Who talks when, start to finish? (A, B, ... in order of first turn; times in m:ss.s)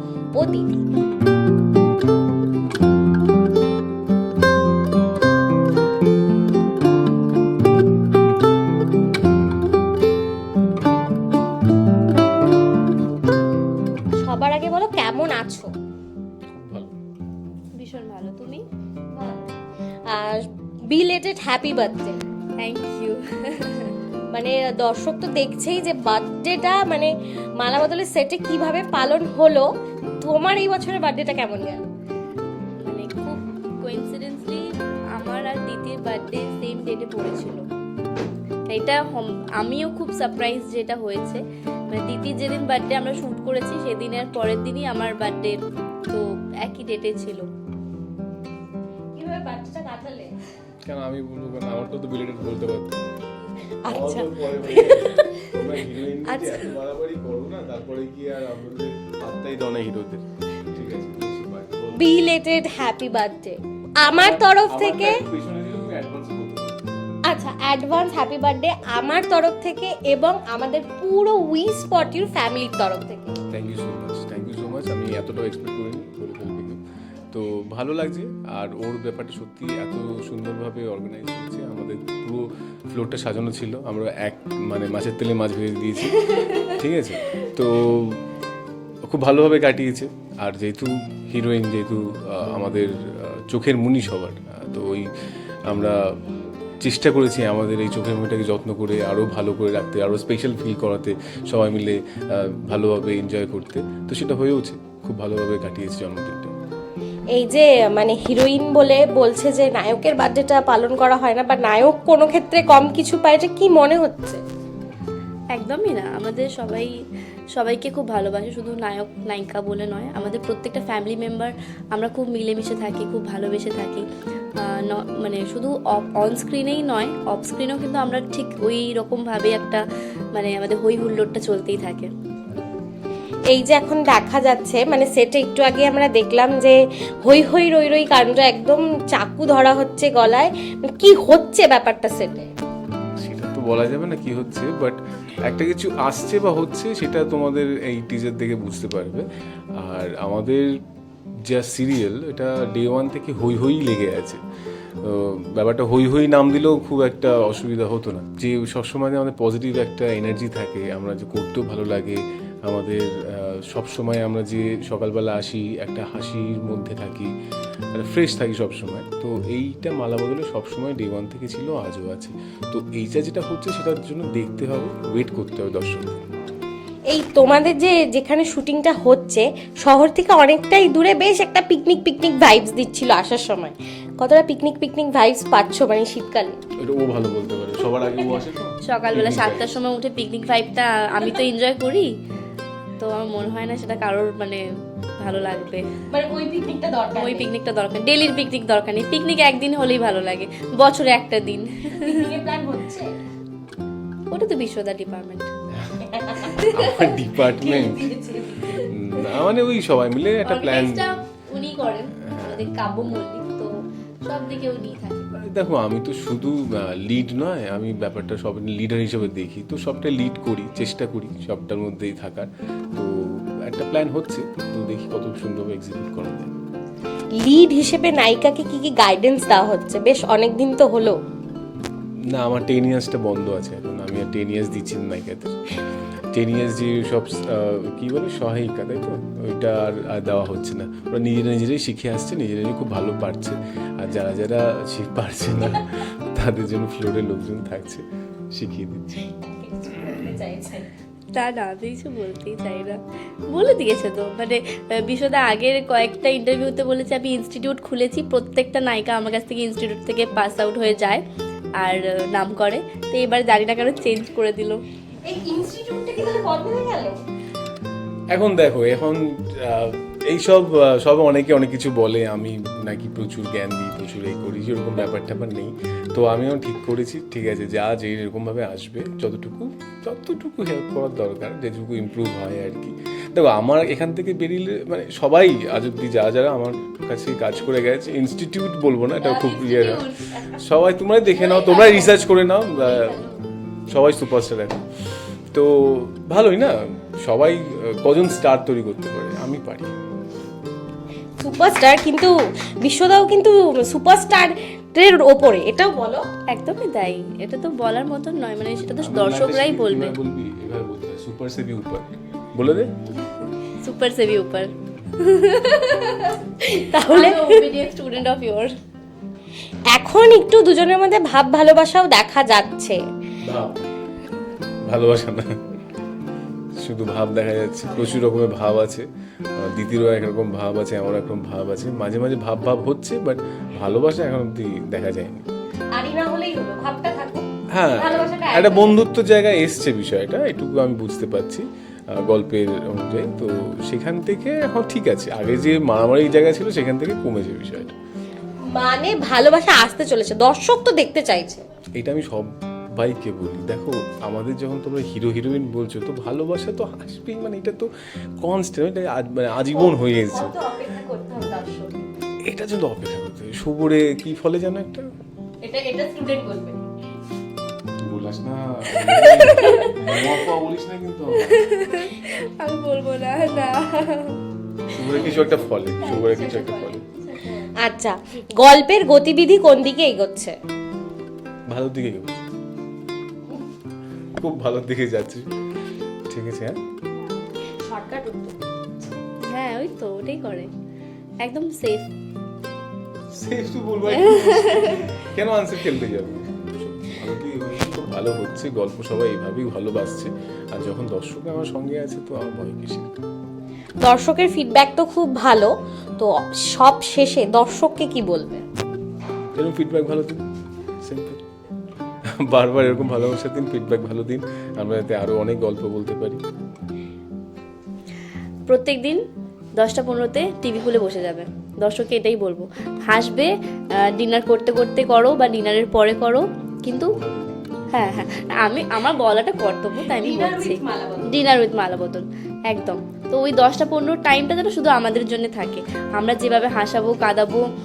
0:00.4-0:00.8 A
0:14.2-0:15.7 A
0:16.6-0:16.9 B
0:17.8-0:18.6 C
0:19.1-0:19.5 A
0:20.1-0:22.2 A
0:22.6-0:24.0 C
0:24.3-0:29.7 A
0:30.2-0:31.9 A
0:32.8-0:34.6 C
0:35.2-0:37.6 C
0:38.7-0:41.4 C
0:41.9-0:47.5 C
0:49.1-0:50.3 A
0:50.9-0:53.0 B
0:53.8-0:54.3 A
0:53.9-1:00.2 B
0:54.8-0:55.4 C
1:00.7-1:02.0 B
1:01.9-1:05.2 A
1:04.1-1:06.8 B
1:07.3-1:13.4 A
1:13.5-1:16.8 B
1:17.3-1:28.2 B
1:26.3-1:26.8 C
1:29.0-1:35.1 B
1:35.7-1:36.0 B
1:36.8-1:46.5 B
1:47.4-1:54.4 A
1:55.5-1:56.9 C
1:57.6-2:04.0 C
2:04.6-2:09.8 C
2:10.3-2:12.1 C
2:13.5-2:22.5 A
2:23.2-2:29.2 B
2:29.8-2:30.7 B
2:31.5-2:34.4 B
2:35.0-2:47.3 B
2:48.0-2:56.1 B
2:57.1-3:06.6 A
3:06.8-3:09.8 B
3:08.9-3:12.1 C
3:11.2-3:11.4 A
3:13.0-3:14.6 C
3:15.2-3:15.8 C
3:16.1-3:17.5 A
3:17.1-3:22.2 C
3:21.9-3:23.1 A
3:24.3-3:25.5 C
3:26.0-3:26.6 A
3:26.4-3:27.1 C
3:26.7-3:28.0 B
3:27.4-3:28.9 A
3:28.9-3:31.0 B
3:30.4-3:35.4 C
3:32.3-3:32.6 B
3:35.4-3:46.5 B
3:47.4-3:51.2 A
3:52.3-3:55.6 B
3:56.3-4:09.2 B
4:09.3-4:10.8 A
4:11.3-4:21.2 C
4:21.8-4:24.8 C
4:25.2-4:27.2 A
4:28.3-4:50.0 B
4:49.2-4:50.6 C
4:50.6-4:53.2 B
4:51.3-4:52.1 A
4:52.8-4:53.4 C
4:53.9-4:54.8 B
4:55.5-5:00.0 B
5:01.4-5:06.2 A
5:06.5-5:10.1 C
5:09.0-5:12.9 B
5:13.6-5:16.4 C
5:16.6-5:17.7 A
5:16.9-5:18.7 C
5:19.9-5:23.0 A
5:23.4-5:23.8 B
5:24.8-5:25.6 B
5:26.8-5:29.1 B
5:27.9-5:28.2 A
5:29.6-5:35.5 B
5:35.9-5:39.0 A
5:37.7-5:48.0 B
5:48.7-5:51.6 A
5:52.0-5:57.9 B
5:58.4-6:00.5 B
5:59.7-6:02.3 A
6:02.4-6:05.1 B
6:05.6-6:06.8 A
6:08.0-6:11.6 B
6:09.1-6:10.1 C
6:11.4-6:14.4 C
6:14.9-6:17.0 B
6:15.1-6:15.4 C
6:16.0-6:17.8 C
6:17.8-6:20.6 A
6:21.7-6:22.5 B
6:24.4-6:25.5 B
6:26.3-6:26.8 B
6:27.8-6:28.6 A
6:29.5-6:30.7 C
6:31.4-6:32.1 C
6:33.4-6:43.1 B
6:34.1-6:35.1 C
6:44.0-6:48.6 A
6:49.6-6:50.4 B
6:51.0-6:51.4 B
6:52.4-6:56.4 B
6:58.7-6:59.2 C
6:59.8-7:03.5 C
7:04.1-7:07.1 C
7:06.9-7:08.8 B
7:07.9-7:17.6 C
7:10.0-7:11.4 A